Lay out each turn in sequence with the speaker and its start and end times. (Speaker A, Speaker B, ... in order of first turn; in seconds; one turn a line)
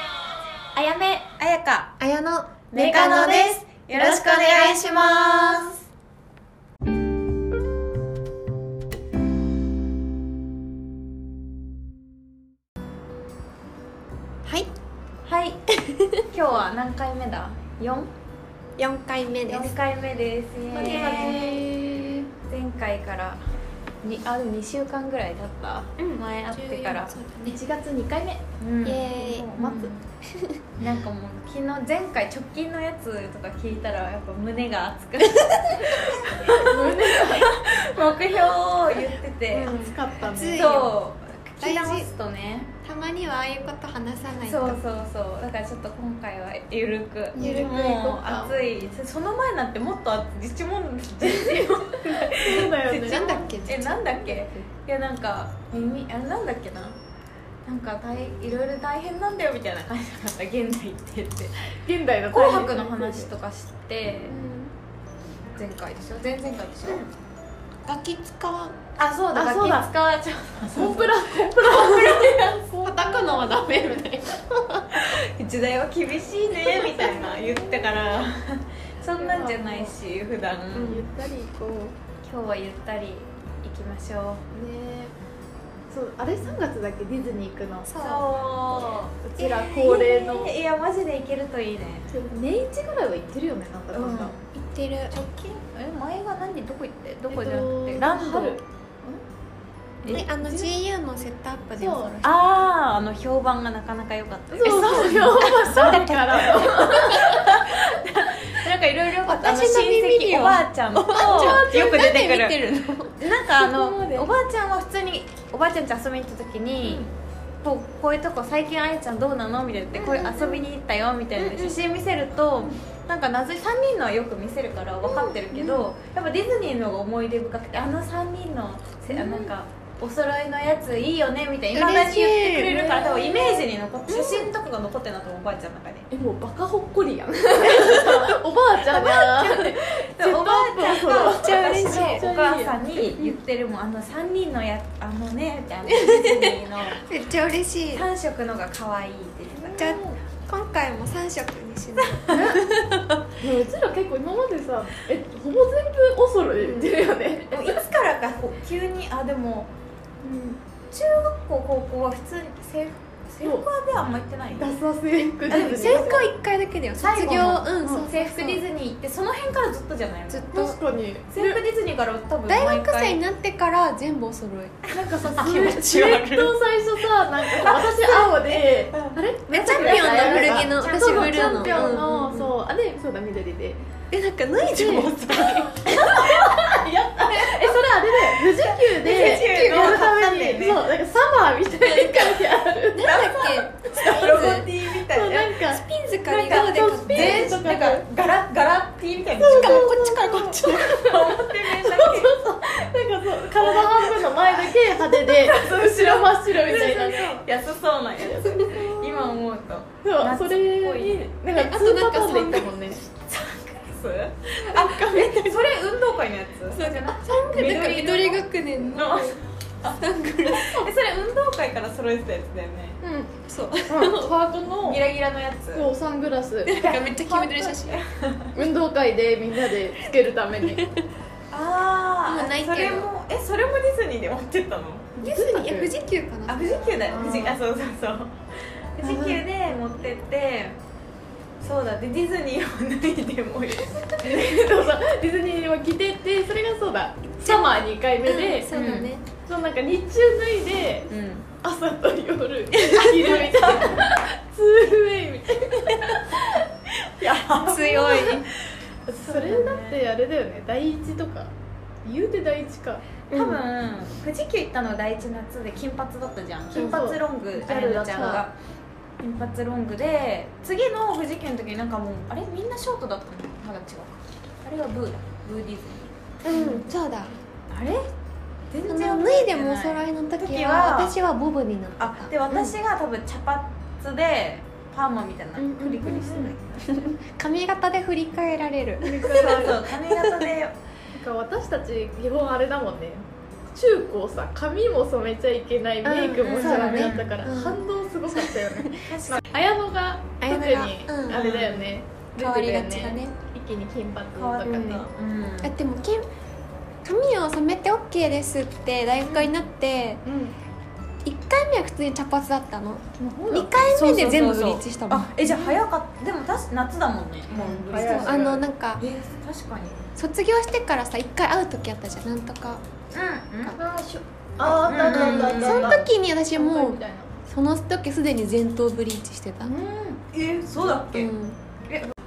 Speaker A: 0.7-2.0
Speaker B: 2.0-5.7
Speaker A: 2.7-5.8
Speaker C: 2.8-3.5
Speaker A: 15.2-15.6
Speaker B: 15.8-16.2
Speaker A: 16.3-18.1
Speaker B: 18.8-19.8
Speaker A: 19.5-21.5
Speaker C: 20.7-22.3
Speaker B: 20.8-21.8
Speaker A: 22.5-23.4
Speaker A: 24.0-27.2
Speaker B: 26.0-27.6
Speaker C: 27.4-29.9
Speaker A: 28.6-30.1
Speaker B: 28.8-29.5
Speaker B: 30.3-30.6
Speaker A: 30.8-39.8
Speaker C: 36.5-37.5
Speaker B: 39.5-40.9
Speaker C: 39.6-40.9
Speaker A: 40.5-42.7
Speaker B: 41.6-42.1
Speaker B: 42.8-44.8
Speaker A: 44.5-57.0
Speaker C: 47.3-48.6
Speaker B: 47.4-47.8
Speaker C: 51.2-54.7
Speaker B: 52.9-54.0
Speaker A: 57.7-61.8
Speaker C: 61.8-63.3
Speaker A: 62.3-64.4
Speaker B: 64.3-64.7
Speaker A: 65.6-67.1
Speaker B: 67.9-68.8
Speaker A: 69.0-72.6
Speaker C: 69.3-69.9
Speaker C: 70.7-74.2
Speaker B: 71.8-72.2
Speaker B: 72.8-75.0
Speaker A: 74.9-81.0
Speaker C: 77.0-77.9
Speaker C: 79.2-80.0
Speaker B: 80.8-81.0
Speaker C: 80.8-82.0
Speaker A: 82.2-84.4
Speaker C: 84.5-85.1
Speaker C: 85.9-88.0
Speaker B: 87.9-88.3
Speaker A: 88.0-92.1
Speaker C: 89.2-90.5
Speaker B: 89.4-90.1
Speaker C: 92.1-94.3
Speaker A: 93.9-94.5
Speaker B: 94.5-95.2
Speaker A: 95.1-98.6
Speaker C: 97.3-99.2
Speaker A: 100.0-100.3
Speaker B: 100.1-102.4
Speaker C: 100.1-100.7
Speaker C: 101.8-102.2
Speaker A: 102.2-117.1
Speaker C: 104.5-107.5
Speaker B: 104.7-107.0
Speaker B: 109.2-113.1
Speaker C: 111.1-112.0
Speaker C: 113.6-114.3
Speaker C: 116.8-117.1
Speaker A: 117.6-136.1
Speaker B: 120.0-120.6
Speaker B: 121.4-121.8
Speaker B: 125.0-125.9
Speaker C: 129.1-129.5
Speaker B: 131.7-132.8
Speaker C: 132.6-133.7
Speaker B: 134.1-134.5
Speaker C: 136.1-143.2
Speaker B: 138.9-139.6
Speaker A: 139.3-147.0
Speaker B: 141.1-142.2
Speaker B: 145.9-146.5
Speaker B: 147.0-148.1
Speaker A: 147.9-149.9
Speaker C: 149.6-150.2
Speaker B: 149.8-153.1
Speaker C: 152.3-152.6
Speaker C: 153.4-157.8
Speaker B: 156.6-156.9
Speaker A: 157.5-159.7
Speaker C: 160.2-160.6
Speaker A: 160.9-164.8
Speaker C: 163.4-163.7
Speaker C: 164.5-166.3
Speaker A: 165.5-166.3
Speaker B: 165.5-168.6
Speaker A: 167.0-170.7
Speaker C: 167.3-168.1
Speaker B: 170.3-170.8
Speaker C: 170.5-171.6
Speaker A: 171.3-173.2
Speaker B: 172.5-174.8
Speaker C: 174.9-183.8
Speaker A: 175.2-176.6
Speaker A: 177.6-182.0
Speaker B: 179.5-182.5
Speaker B: 184.1-185.9
Speaker C: 184.6-195.8
Speaker A: 186.2-186.7
Speaker A: 188.5-190.8
Speaker B: 189.1-189.9
Speaker B: 191.8-194.7
Speaker A: 193.0-195.5
Speaker B: 195.6-197.6
Speaker A: 196.2-202.4
Speaker C: 196.5-198.1
Speaker C: 199.4-207.5
Speaker B: 199.4-201.0
Speaker A: 203.6-204.7
Speaker A: 205.2-211.3
Speaker C: 208.2-208.6
Speaker B: 208.5-208.9
Speaker C: 210.0-213.1
Speaker B: 211.5-212.9
Speaker A: 213.2-223.0
Speaker C: 214.5-215.7
Speaker B: 216.7-219.4
Speaker C: 218.8-219.2
Speaker B: 219.9-220.9
Speaker C: 223.0-225.0
Speaker B: 223.5-224.3
Speaker A: 224.8-225.9
Speaker C: 225.7-227.6
Speaker B: 226.7-228.0
Speaker A: 226.7-228.5
Speaker C: 228.5-230.9
Speaker B: 230.6-231.0
Speaker A: 231.5-235.2
Speaker B: 232.3-233.1
Speaker C: 235.2-235.9
Speaker B: 235.2-237.1
Speaker A: 236.5-238.4
Speaker C: 237.0-237.6
Speaker A: 238.9-240.8
Speaker B: 239.0-239.6
Speaker A: 241.6-244.3
Speaker C: 244.2-256.7
Speaker B: 247.4-247.7
Speaker B: 248.2-249.2
Speaker A: 248.7-249.1
Speaker A: 251.1-251.5
Speaker A: 252.8-253.9
Speaker A: 257.0-260.0
Speaker B: 257.6-258.4
Speaker C: 257.8-258.4
Speaker C: 259.1-261.5
Speaker C: 262.1-263.2
Speaker B: 263.3-263.6
Speaker A: 263.3-268.5
Speaker C: 266.7-268.4
Speaker B: 266.8-267.1
Speaker B: 268.1-268.4
Speaker A: 269.2-276.8
Speaker B: 276.4-277.3
Speaker A: 277.7-278.1
Speaker A: 278.7-281.1
Speaker B: 278.9-282.8
Speaker A: 282.0-287.2
Speaker B: 285.6-290.3
Speaker C: 286.1-286.5
Speaker C: 289.0-289.8
Speaker A: 289.2-290.8
Speaker C: 291.1-305.1
Speaker B: 296.0-299.1
Speaker A: 296.4-297.4
Speaker A: 299.0-299.4
Speaker B: 300.4-301.4
Speaker A: 301.3-301.9
Speaker B: 302.4-303.3
Speaker A: 304.4-305.8
Speaker B: 304.6-305.0
Speaker B: 305.6-306.3
Speaker B: 307.0-310.2
Speaker C: 309.2-309.5
Speaker C: 310.2-310.6
Speaker B: 311.2-315.3
Speaker C: 313.2-313.8
Speaker A: 313.8-320.1
Speaker C: 315.4-315.8
Speaker C: 317.5-318.6
Speaker B: 317.9-319.1
Speaker B: 320.2-322.8
Speaker A: 323.1-323.8
Speaker C: 323.8-327.3
Speaker A: 324.8-326.0
Speaker B: 325.0-329.8
Speaker C: 329.6-330.2
Speaker A: 330.3-331.3
Speaker B: 331.1-331.6
Speaker A: 331.9-332.1